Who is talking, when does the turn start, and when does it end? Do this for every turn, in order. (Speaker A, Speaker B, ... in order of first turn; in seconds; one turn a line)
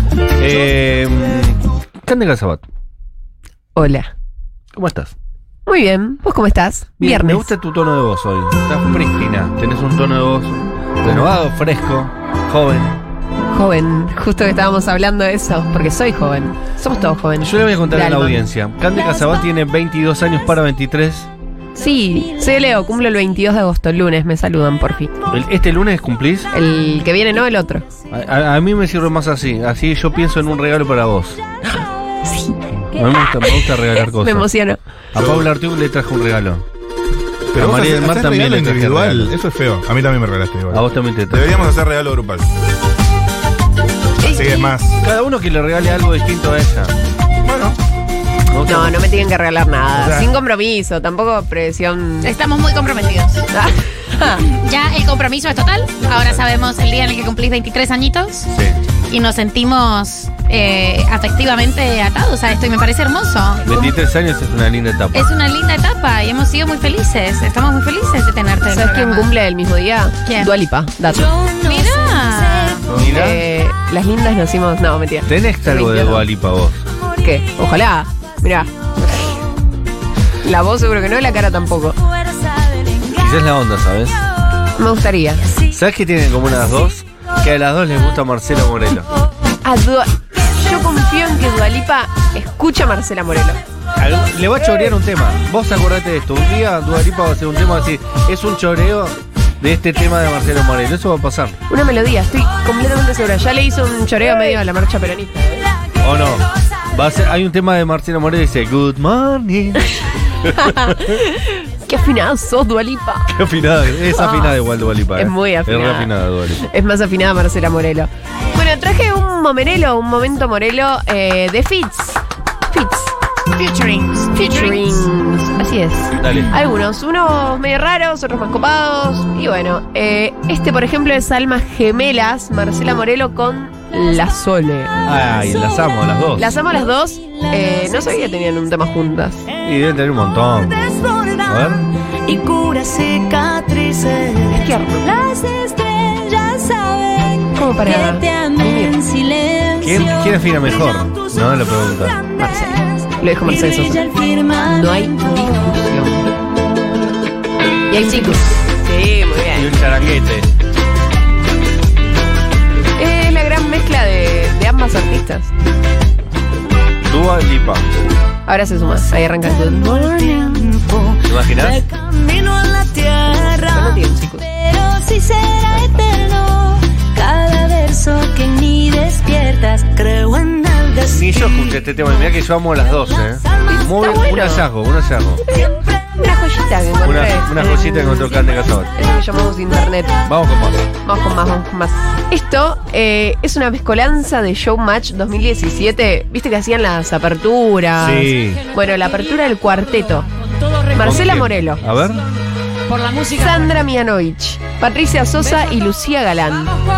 Speaker A: 0.4-2.6
Speaker B: 3.7-4.1
Speaker A: 4.7-5.1
Speaker B: 5.7-7.5
Speaker A: 7.0-13.0
Speaker B: 13.5-18.4
Speaker A: 17.4-21.3
Speaker B: 21.7-25.1
Speaker A: 25.3-26.5
Speaker B: 26.5-27.9
Speaker A: 28.1-31.4
Speaker B: 31.6-32.6
Speaker A: 32.8-34.5
Speaker B: 33.3-34.8
Speaker A: 35.1-36.6
Speaker C: 35.1-35.5
Speaker C: 37.5-42.5
Speaker A: 37.5-39.3
Speaker A: 40.7-41.8
Speaker B: 44.2-44.6
Speaker C: 44.2-45.0
Speaker A: 45.0-46.9
Speaker C: 47.4-47.8
Speaker A: 48.5-49.1
Speaker B: 48.6-52.3
Speaker C: 49.9-50.3
Speaker D: 52.2-53.5
Speaker B: 53.5-54.5
Speaker D: 54.4-58.5
Speaker A: 58.5-58.8
Speaker D: 59.1-63.8
Speaker A: 63.6-65.3
Speaker D: 65.1-69.3
Speaker B: 68.6-71.3
Speaker D: 70.2-70.6
Speaker E: 71.1-72.9
Speaker D: 71.6-72.9
Speaker B: 72.9-76.2
Speaker A: 72.9-73.4
Speaker A: 75.2-76.8
Speaker B: 77.2-79.4
Speaker B: 80.4-82.0
Speaker A: 83.1-84.2
Speaker B: 84.8-85.5
Speaker A: 85.7-89.1
Speaker B: 89.6-93.6
Speaker A: 94.0-101.6
Speaker B: 101.7-105.7
Speaker A: 106.0-111.1
Speaker B: 110.5-113.3
Speaker A: 113.3-116.6
Speaker B: 114.0-114.6
Speaker B: 115.1-123.1
Speaker D: 123.5-125.0
Speaker B: 124.3-134.9
Speaker A: 126.1-126.5
Speaker A: 135.0-136.6
Speaker B: 136.4-139.5
Speaker E: 137.3-138.0
Speaker A: 139.6-141.9
Speaker E: 140.9-141.4
Speaker E: 142.2-150.6
Speaker B: 144.5-145.1
Speaker B: 147.5-149.0
Speaker A: 149.8-152.2
Speaker B: 152.4-156.3
Speaker E: 153.5-155.6
Speaker B: 157.9-159.7
Speaker A: 159.5-160.5
Speaker B: 162.9-165.5
Speaker A: 167.1-167.9
Speaker B: 168.4-170.8
Speaker E: 169.4-181.3
Speaker A: 171.2-171.8
Speaker B: 173.5-174.4
Speaker A: 181.1-185.4
Speaker B: 183.7-184.7
Speaker B: 185.4-188.3
Speaker A: 187.0-188.9
Speaker B: 188.9-190.2
Speaker A: 190.2-190.8
Speaker B: 191.0-200.3
Speaker A: 198.0-198.6
Speaker B: 200.8-201.8
Speaker A: 201.0-202.3
Speaker B: 203.2-206.8